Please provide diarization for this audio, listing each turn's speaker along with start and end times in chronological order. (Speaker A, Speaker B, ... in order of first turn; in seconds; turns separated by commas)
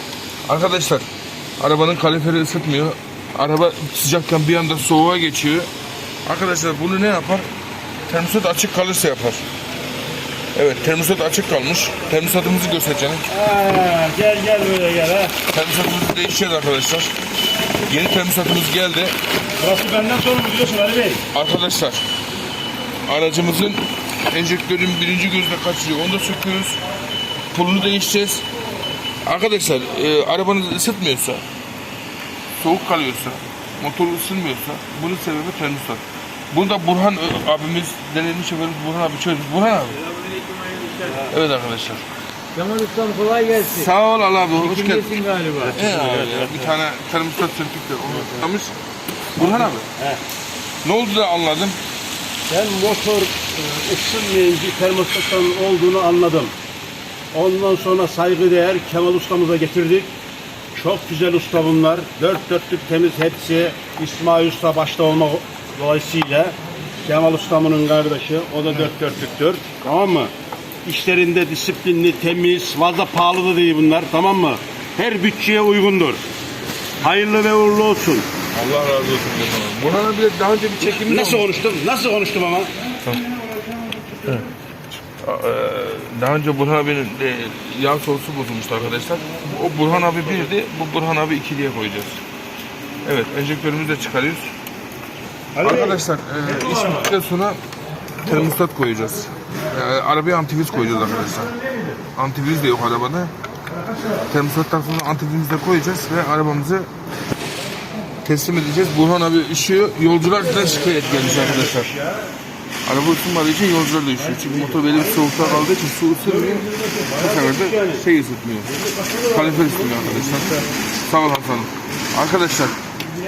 Speaker A: 0.5-1.1, Speaker A: 1.6-5.7, Speaker A: 6.2-7.5, Speaker A: 8.1-9.4, Speaker A: 10.5-13.2, Speaker B: 13.3-15.3, Speaker A: 15.5-17.1, Speaker A: 17.9-19.1, Speaker B: 19.6-21.2, Speaker A: 21.3-22.0, Speaker A: 23.1-26.8, Speaker A: 27.5-28.4, Speaker A: 29.2-31.4, Speaker A: 32.6-40.0, Speaker C: 40.1-41.1, Speaker A: 41.3-42.0, Speaker C: 42.5-43.7, Speaker A: 43.5-48.8, Speaker C: 44.7-45.7, Speaker B: 45.6-46.7, Speaker A: 49.4-49.9, Speaker B: 49.4-50.2, Speaker A: 50.8-51.8, Speaker B: 52.5-56.5, Speaker B: 57.3-60.1, Speaker B: 60.7-70.3, Speaker B: 70.8-76.2, Speaker B: 77.0-78.2, Speaker A: 78.5-81.5, Speaker B: 80.8-82.7, Speaker A: 85.2-92.2, Speaker A: 93.0-94.5, Speaker B: 95.6-96.0, Speaker A: 95.6-97.6, Speaker A: 98.2-101.5, Speaker A: 102.2-103.3, Speaker A: 104.3-106.9, Speaker A: 108.2-111.9, Speaker B: 111.0-112.2, Speaker A: 112.9-118.8, Speaker B: 114.3-115.4, Speaker B: 116.2-118.0, Speaker B: 118.7-120.6, Speaker A: 119.3-122.8